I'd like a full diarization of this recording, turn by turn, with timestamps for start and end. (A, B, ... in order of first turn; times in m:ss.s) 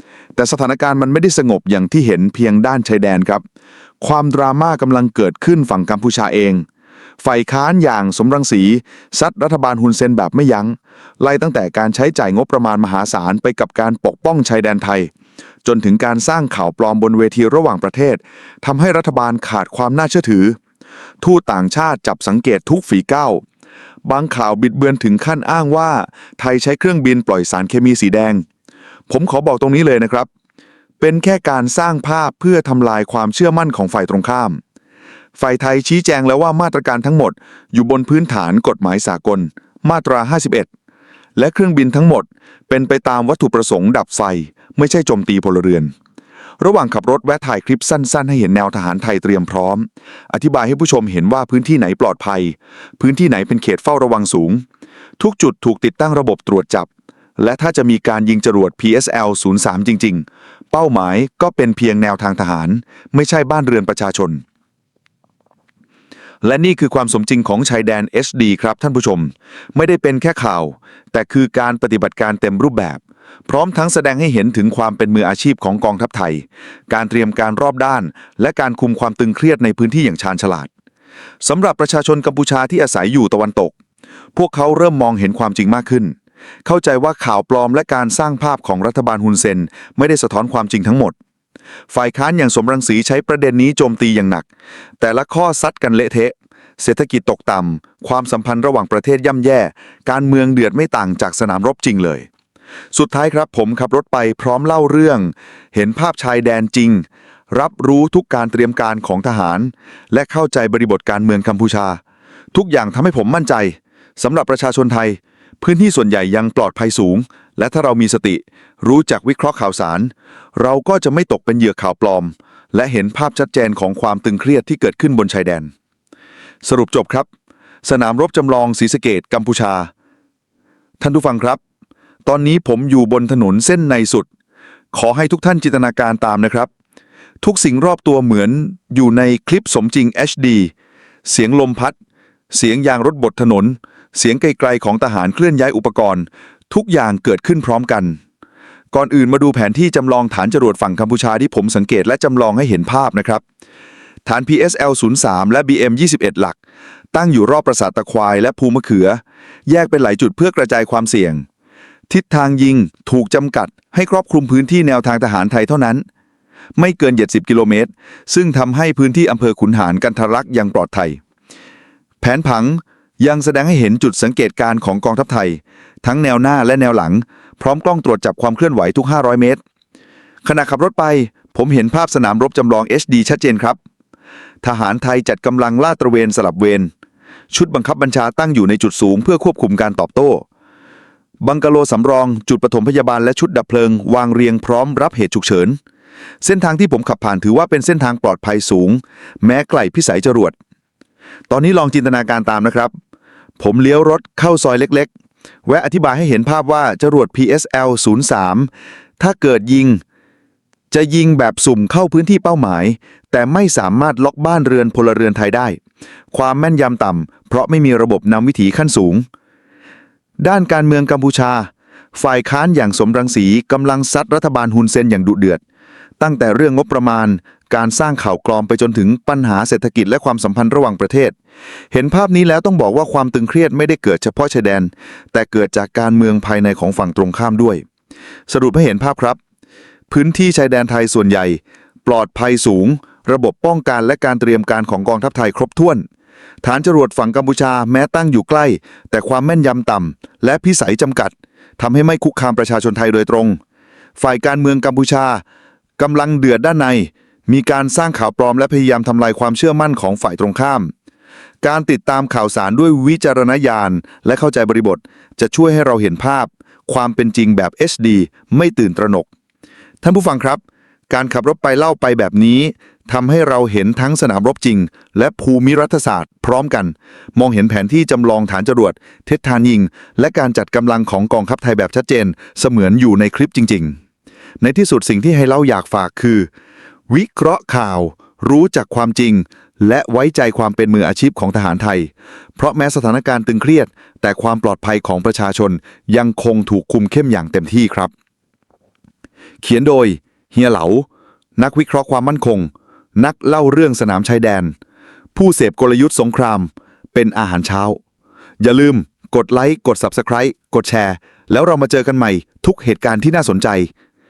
0:00.4-0:03.4 A
0:04.0-0:06.6 A
0:07.2-0:15.1 A
0:15.6-0:20.6 A
0:21.2-0:23.4 A
0:24.0-0:28.4 A
0:29.1-0:30.3 A
0:31.0-0:34.6 A
0:35.4-0:40.7 A
0:41.4-0:45.9 A
0:46.6-0:54.6 A
0:55.2-1:04.4 A
1:06.4-1:20.7 A
1:21.4-1:23.7 A
1:24.4-1:31.2 A
1:31.9-1:34.5 A
1:35.0-1:42.3 A
1:42.9-1:52.0 A
1:52.5-2:05.7 A
2:06.6-2:07.3 A
2:07.8-2:09.9 A
2:11.0-2:11.6 A
2:12.3-2:14.3 A
2:14.9-2:16.7 A
2:17.4-2:20.7 A
2:21.2-2:22.0 A
2:22.5-2:28.2 A
2:28.9-2:33.4 A
2:34.2-2:36.6 A
2:37.1-2:41.4 A
2:42.1-2:46.0 A
2:46.8-2:51.2 A
2:52.2-2:59.6 A
3:00.4-3:03.8 A
3:04.6-3:06.9 A
3:07.5-3:10.4 A
3:11.4-3:15.8 A
3:16.4-3:20.6 A
3:21.5-3:22.9 A
3:23.6-3:25.1 A
3:25.7-3:30.0 A
3:30.9-3:35.8 A
3:36.3-3:39.3 A
3:40.4-3:45.6 A
3:46.2-3:51.4 A
3:51.9-3:57.8 A
3:58.5-3:59.4 A
4:00.1-4:06.0 A
4:06.6-4:13.6 A
4:14.2-4:15.4 A
4:16.0-4:20.9 A
4:21.6-4:29.3 A
4:30.0-4:44.0 A
4:44.6-4:46.5 A
4:47.1-4:58.1 A
4:59.6-5:04.7 A
5:05.4-5:08.0 A
5:08.6-5:13.9 A